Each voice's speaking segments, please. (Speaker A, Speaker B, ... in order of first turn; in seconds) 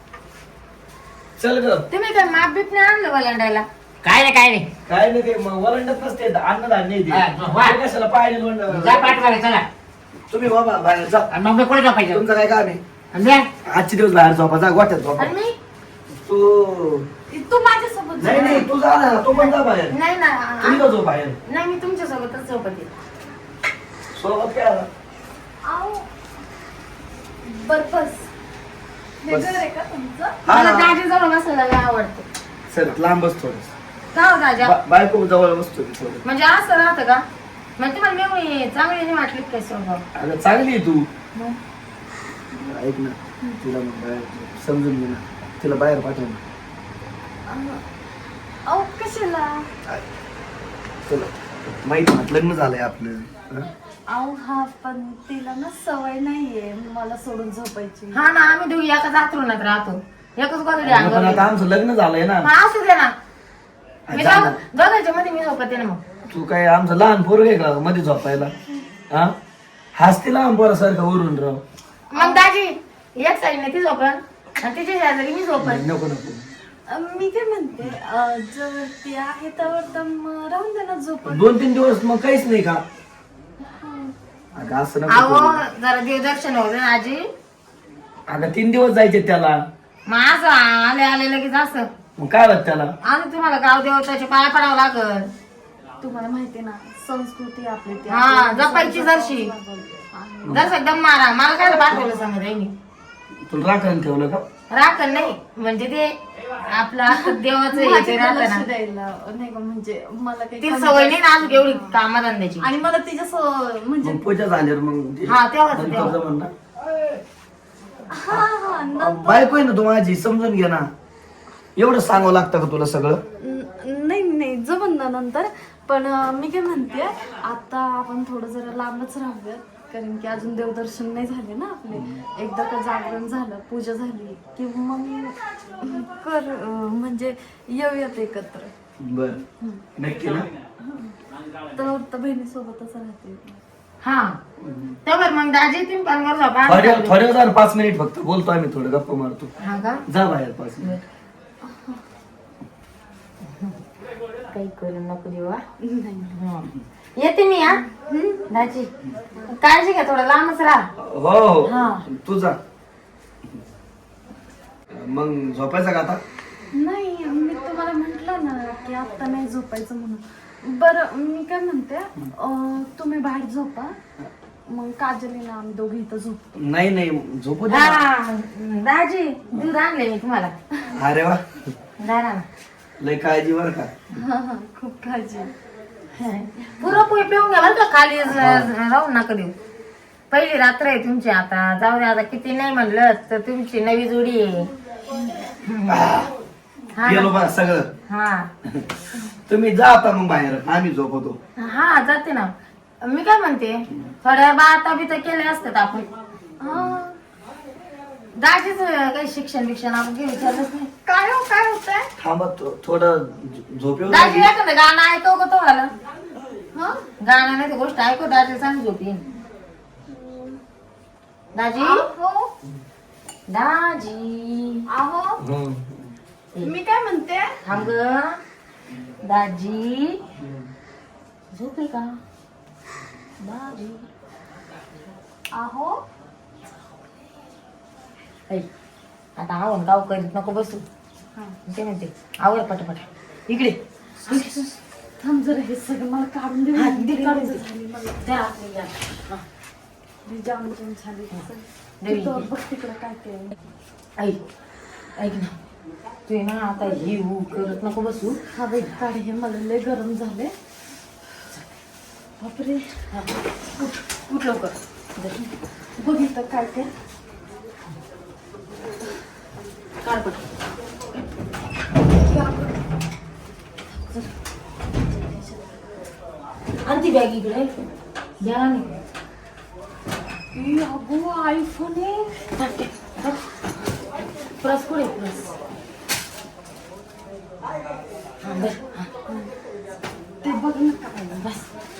Speaker A: 1.4-1.9, 4.8-9.2, 10.3-11.3, 12.1-12.8, 13.6-15.3, 16.2-17.1, 18.2-19.9, 20.6-21.4, 24.1-24.9, 29.3-29.6, 30.5-30.9, 32.7-33.7, 34.6-36.2, 40.1-41.1, 42.6-46.4, 51.8-53.7, 60.8-62.5, 64.1-64.6, 66.3-68.5, 69.9-71.6, 75.5-76.4, 81.2-82.8, 84.5-85.6, 88.3-89.6, 92.2-92.9, 100.4-100.8, 103.5-104.5, 114.0-116.5, 119.0-120.9, 121.8-123.2, 139.0-139.4, 140.0-140.5, 144.6-145.0, 146.6-149.5, 150.1-150.9, 161.0-162.6, 164.9-166.2, 176.6-178.1, 180.9-181.7, 183.0-183.9, 188.3-188.7, 195.9-196.3, 197.0-197.9, 199.5-201.4, 212.2-214.5, 225.4-226.1
Speaker B: 1.9-3.7, 15.2-15.6, 19.3-20.8, 21.5-22.9, 30.5-32.2, 34.1-34.7, 36.2-37.2, 37.8-40.0, 58.1-61.5, 62.4-63.1, 64.1-66.0, 72.1-75.8, 85.1-87.2, 90.1-91.9, 93.0-95.3, 98.1-99.5, 100.5-102.7, 104.7-108.7, 110.6-112.7, 115.2-116.2, 144.0-144.4, 145.1-147.2, 149.6-150.0, 154.5-155.6, 156.3-157.8, 158.5-158.9, 159.5-160.9, 177.7-180.5, 182.0-182.4, 186.1-189.6, 190.3-194.7, 195.6-196.2, 197.0-197.4, 198.1-198.5, 201.6-206.1, 208.4-210.9, 214.1-215.9, 217.2-219.2, 221.5-222.1, 223.5-224.9, 227.6-228.4, 229.2-230.2, 231.5-232.1, 233.4-234.1, 239.4-240.8, 241.7-244.6, 246.7-247.6, 248.2-249.4, 252.0-252.5, 255.2-255.5, 256.3-258.4, 263.1-265.3, 270.0-270.4, 276.8-277.7, 278.4-278.9, 282.6-283.4, 284.6-285.5, 288.4-289.1
Speaker C: 4.0-4.7, 7.1-7.8, 8.7-9.7, 11.3-12.2, 13.1-13.5
Speaker D: 17.3-18.7, 25.6-26.1, 27.4-28.3, 29.2-30.4, 47.5-47.8, 48.7-49.7, 54.1-58.2, 72.1-72.4, 76.9-81.5, 83.7-84.1, 96.0-100.9, 107.1-112.0, 112.6-114.2, 118.1-119.5, 123.4-138.7, 141.7-143.6, 151.7-152.0, 155.9-156.3, 157.8-158.4, 161.7-162.0, 166.7-173.9, 174.7-176.6, 184.1-185.5, 206.6-207.2, 211.0-212.1, 216.7-217.0, 220.1-220.6, 221.7-222.5, 224.9-225.4, 226.6-227.6, 235.5-236.0, 244.2-248.2, 250.2-253.5, 258.5-260.5, 262.4-263.0, 265.4-266.9, 272.1-272.7, 273.9-274.3, 275.0-275.8, 280.5-282.5, 290.4-291.7